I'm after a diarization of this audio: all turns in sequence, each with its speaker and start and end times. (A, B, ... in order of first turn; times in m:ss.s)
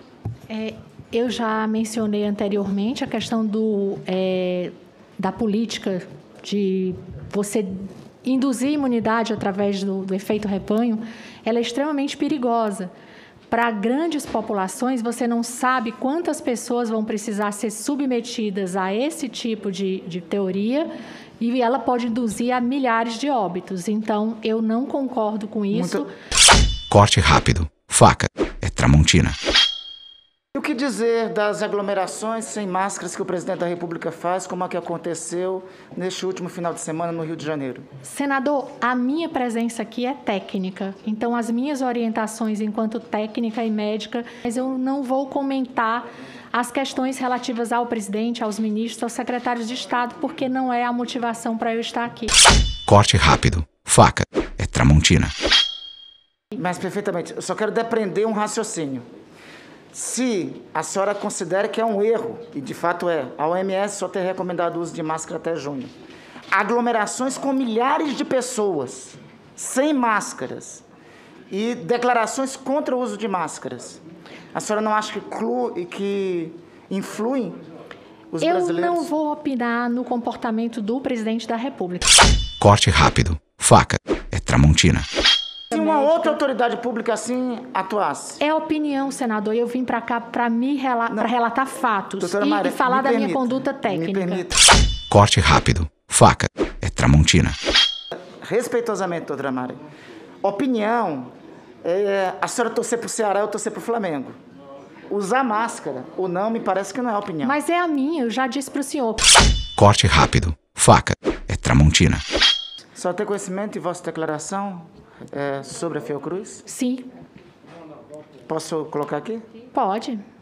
0:00.5-0:12.9 A
0:13.5-0:20.9 A
0:21.4-0:26.0 A
0:25.7-0:26.0 B
0:26.9-0:29.4 C
0:30.5-0:37.8 B
0:38.0-0:52.3 A
0:52.9-0:55.3 C
0:56.5-0:59.0 B
0:59.9-1:05.9 B
1:06.5-1:10.8 B
1:11.5-1:14.0 B
1:14.5-1:17.6 B
1:18.3-1:19.1 B
1:18.4-1:22.2 A
1:22.6-1:25.1 C
1:25.7-1:28.4 B
1:25.7-1:26.3 A
1:28.4-1:34.5 A
1:32.2-1:34.6 B
1:35.1-1:37.6 C
1:38.4-1:39.8 B
1:40.4-1:41.3 B
1:41.8-1:44.4 B
1:45.1-1:47.6 B
1:47.4-1:49.2 A
1:49.8-1:52.2 C
1:52.9-1:56.6 B
1:56.7-1:57.0 A
1:58.5-1:59.4 B
1:59.7-2:00.2 A